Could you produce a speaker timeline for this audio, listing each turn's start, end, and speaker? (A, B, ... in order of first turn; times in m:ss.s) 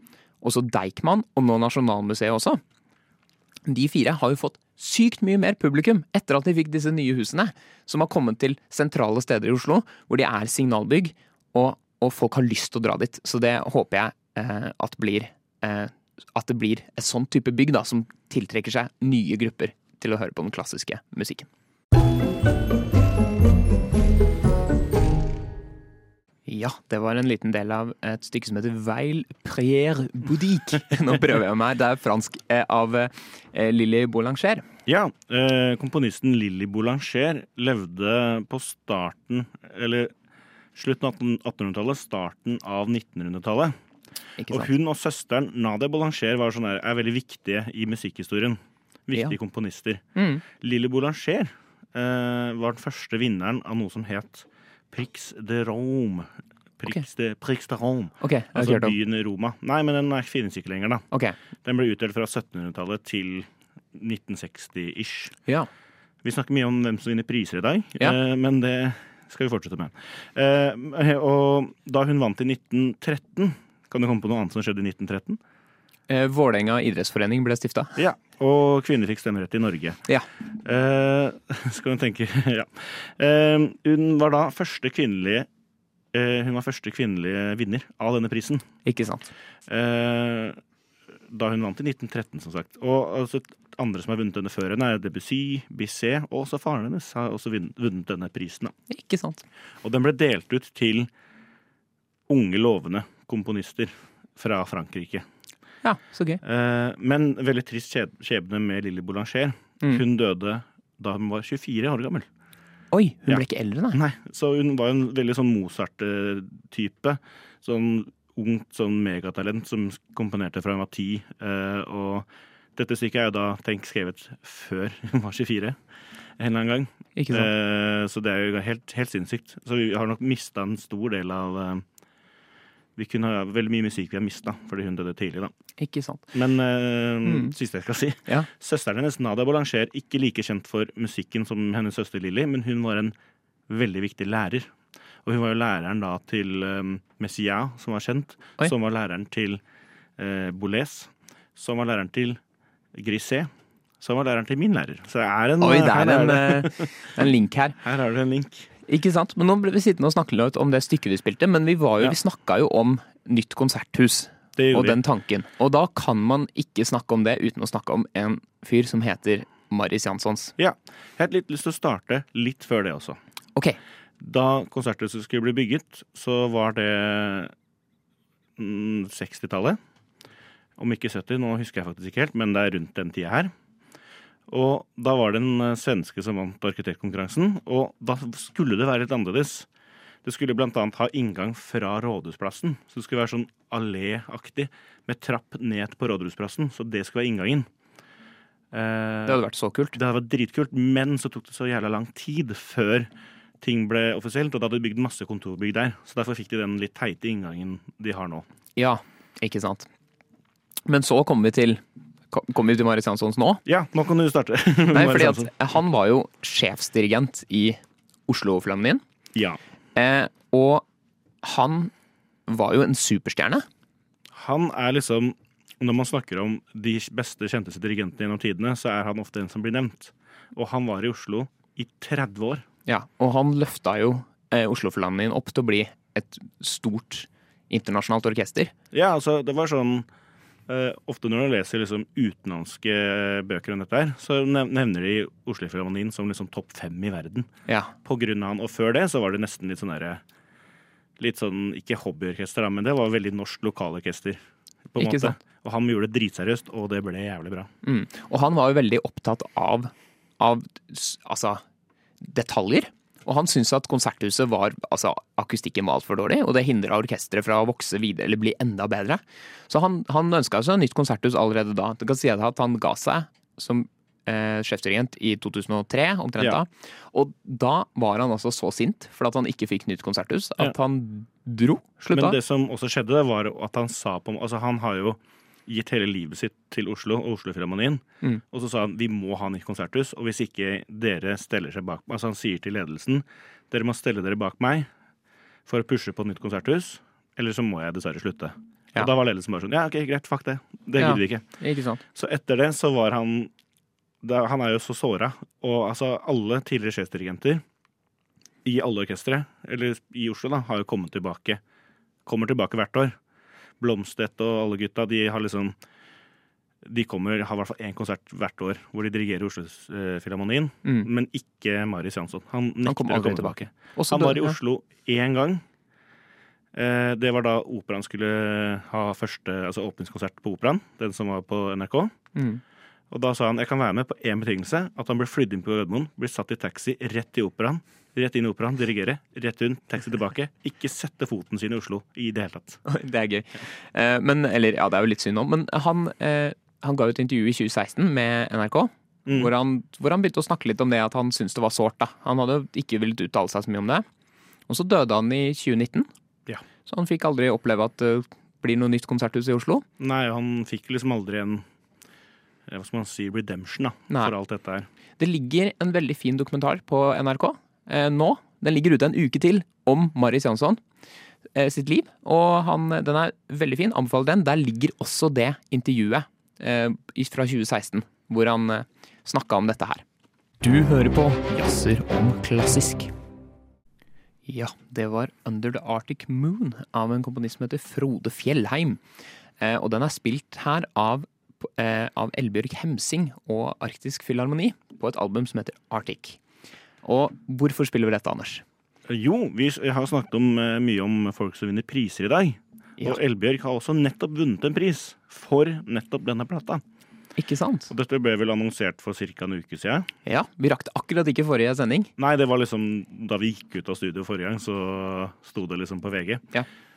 0:00.4-0:02.6 A
0:03.7-0:21.5 A
0:26.5-0:34.6 A
0:34.9-0:40.1 B
0:40.8-0:43.7 B
0:44.4-0:44.7 A
0:44.5-1:01.0 B
0:50.2-0:50.4 A
0:58.2-0:59.0 A
1:01.1-1:01.4 A
1:01.6-1:05.4 B
1:06.2-1:15.4 B
1:16.1-1:18.0 A
1:18.0-1:20.0 B
1:20.6-1:25.5 B
1:26.1-1:28.6 B
1:28.8-1:29.3 A
1:29.7-1:30.6 B
1:31.3-1:38.7 B
1:38.9-1:39.4 A
1:39.8-1:41.1 B
1:42.3-1:45.3 B
1:45.8-1:46.4 A
1:46.4-1:52.3 B
1:52.9-1:54.0 A
1:53.3-2:05.8 B
2:06.4-2:11.8 B
2:07.2-2:07.5 A
2:13.0-2:15.5 B
2:15.8-2:16.3 A
2:16.3-2:23.1 B
2:17.2-2:17.5 A
2:23.7-2:24.7 B
2:25.2-2:29.6 B
2:30.2-2:32.4 B
2:32.9-2:37.1 B
2:35.6-2:37.8 A
2:37.8-2:38.7 B
2:38.9-2:50.5 A
2:44.6-2:45.0 B
2:50.6-2:53.2 B
2:54.2-2:57.5 B
2:58.6-2:59.8 B
3:00.8-3:03.5 B
3:04.5-3:09.7 B
3:10.2-3:17.7 B
3:18.7-3:19.4 B
3:19.3-3:20.0 A
3:19.9-3:23.1 B
3:23.6-3:28.5 B
3:28.8-3:29.9 A
3:30.9-3:33.6 A
3:33.7-3:35.5 B
3:34.9-3:39.0 A
3:40.0-3:40.8 A
3:41.4-3:41.9 A
3:42.5-3:43.7 A
3:44.3-3:52.6 B
3:52.9-3:58.7 A
3:58.9-4:00.1 B
4:00.7-4:07.5 B
4:07.7-4:07.9 A
4:08.0-4:10.2 B
4:11.2-4:17.7 B
4:15.0-4:15.4 A
4:17.8-4:21.6 A
4:22.2-4:42.4 A
4:42.1-4:54.9 B
4:55.7-5:01.4 B
5:01.0-5:02.0 A
5:02.1-5:03.5 B
5:04.2-5:07.6 B
5:08.6-5:11.6 B
5:12.2-5:13.2 B
5:13.8-5:15.8 B
5:16.8-5:25.6 B
5:22.8-5:24.6 A
5:26.7-5:32.1 B
5:32.4-5:32.6 A
5:33.1-5:42.8 B
5:42.8-5:54.0 A
5:49.3-5:49.5 B
5:54.7-5:56.1 A
5:56.9-5:59.8 A
6:00.0-6:01.6 B
6:02.7-6:04.9 B
6:05.2-6:10.8 A
6:11.6-6:20.0 A
6:20.6-6:23.1 A
6:24.5-6:29.0 A
6:29.6-6:36.4 A
6:37.0-6:38.6 A
6:39.1-6:46.8 B
6:47.4-6:47.9 A
6:47.9-6:50.1 B
6:50.3-6:52.1 A
6:52.2-6:56.5 B